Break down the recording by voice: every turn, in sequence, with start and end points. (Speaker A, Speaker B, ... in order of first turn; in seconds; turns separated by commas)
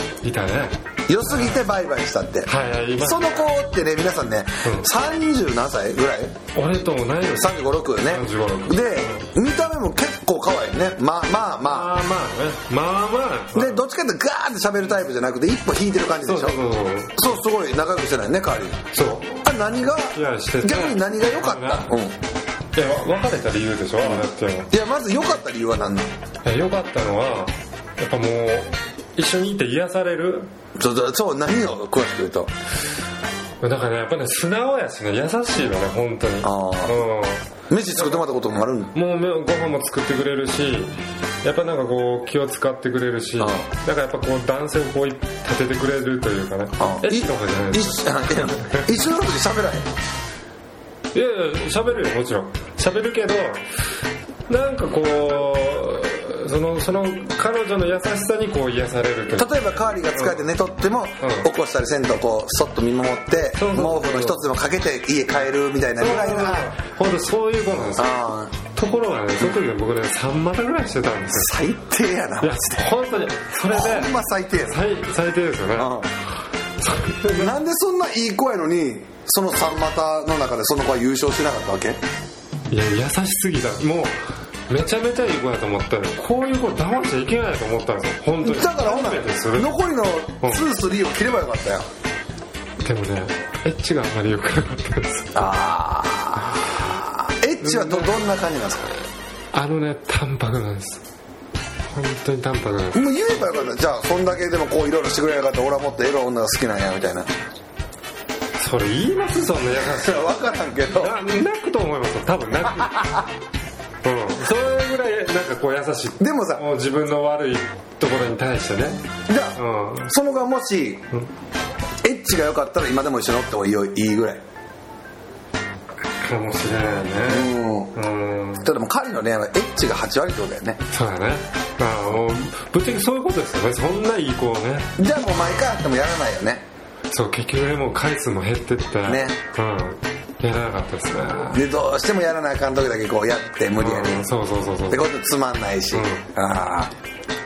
Speaker A: 0.2-1.6, Speaker B: 1.1-6.4, Speaker A: 2.5-3.5, Speaker A: 6.5-9.2, Speaker B: 7.3-11.9, Speaker A: 11.6-13.8, Speaker B: 13.6-16.6, Speaker A: 16.2-17.2, Speaker B: 17.1-18.8, Speaker A: 18.9-19.5, Speaker B: 19.4-22.2, Speaker A: 20.1-21.9, Speaker A: 22.8-24.7, Speaker B: 24.0-26.1, Speaker A: 26.4-30.5, Speaker B: 30.8-32.5, Speaker A: 33.6-38.3, Speaker B: 36.4-37.0, Speaker B: 37.7-38.9, Speaker A: 38.9-48.9, Speaker B: 43.4-43.7, Speaker B: 46.8-49.9, Speaker A: 51.1-53.7, Speaker A: 54.5-60.4, Speaker B: 59.4-66.7, Speaker A: 61.2-61.5, Speaker A: 63.5-64.5, Speaker A: 66.0-68.2, Speaker B: 68.0-68.6, Speaker A: 68.7-71.6, Speaker B: 71.3-72.9, Speaker A: 72.4-76.0, Speaker B: 73.7-74.8, Speaker B: 75.8-76.1, Speaker A: 76.8-77.5, Speaker B: 77.3-82.0, Speaker A: 82.7-89.7, Speaker B: 88.4-91.9, Speaker A: 92.8-95.5, Speaker B: 95.3-98.9, Speaker A: 96.5-96.8, Speaker A: 97.6-98.2, Speaker A: 99.5-101.0, Speaker A: 101.9-103.1, Speaker B: 102.9-107.3, Speaker A: 108.6-110.3, Speaker B: 109.8-111.2, Speaker A: 110.9-113.0, Speaker B: 112.7-113.3, Speaker A: 114.0-120.1, Speaker B: 116.2-116.7, Speaker B: 119.3-121.1, Speaker B: 122.0-124.4, Speaker A: 126.2-128.7, Speaker B: 127.3-128.0, Speaker B: 128.6-130.8, Speaker A: 130.9-135.7, Speaker B: 135.0-136.6, Speaker A: 137.1-141.7, Speaker B: 139.1-139.4, Speaker B: 141.5-144.3, Speaker A: 143.8-145.1, Speaker B: 144.9-146.9, Speaker A: 145.9-146.3